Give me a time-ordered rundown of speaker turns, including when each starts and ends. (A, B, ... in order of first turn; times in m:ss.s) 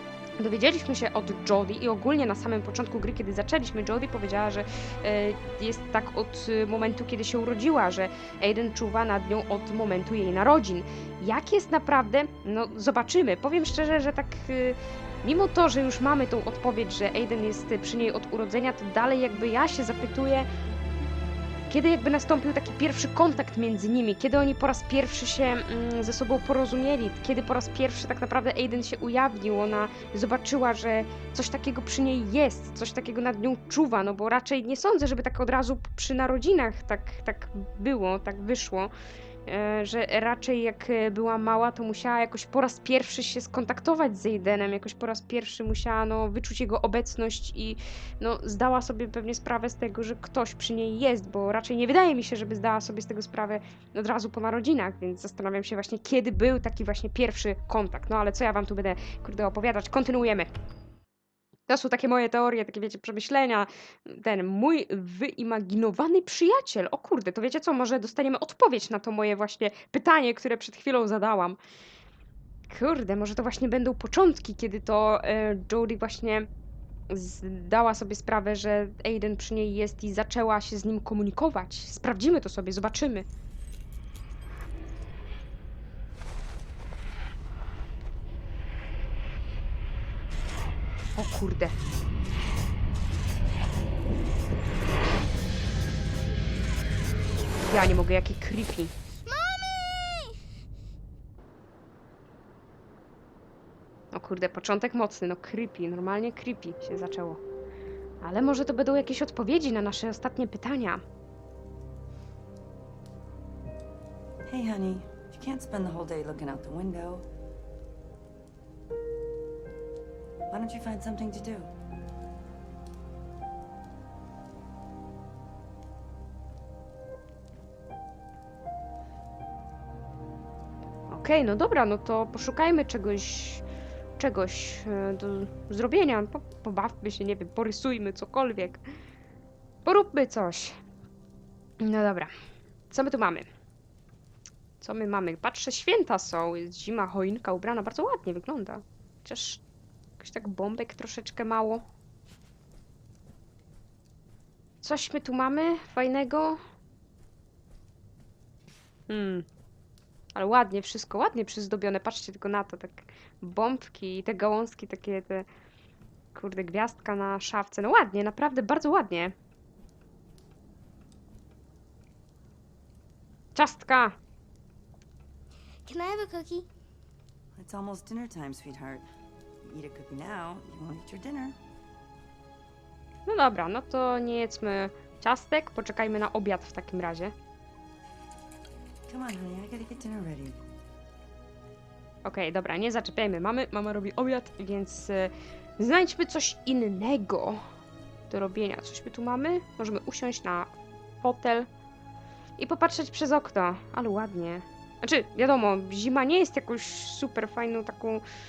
0:00.4-0:20.5 A
0:21.7-0:38.9 A
0:39.5-1:00.5 A
1:01.7-1:11.6 A
1:12.7-1:16.5 A
1:17.1-1:23.3 A
1:31.2-1:31.7 A
1:37.6-1:38.9 A
1:39.2-1:40.4 B
1:44.1-1:47.4 A
1:48.2-1:51.0 A
1:54.5-1:57.3 C
2:00.5-2:01.7 C
2:11.1-2:13.6 A
2:14.2-2:18.8 A
2:19.8-2:20.8 A
2:21.8-2:22.3 A
2:22.9-2:23.5 A
2:24.8-2:29.6 A
2:30.2-2:31.8 A
2:34.8-2:36.6 A
2:39.1-2:39.5 A
2:40.4-2:45.5 A
2:46.3-2:49.3 A
2:53.6-2:54.2 A
2:55.9-2:56.7 B
2:57.6-2:59.0 C
2:59.6-3:01.6 C
3:03.3-3:07.3 A
3:09.1-3:10.6 C
3:12.2-3:17.6 A
3:18.3-3:21.7 A
3:22.6-3:28.2 A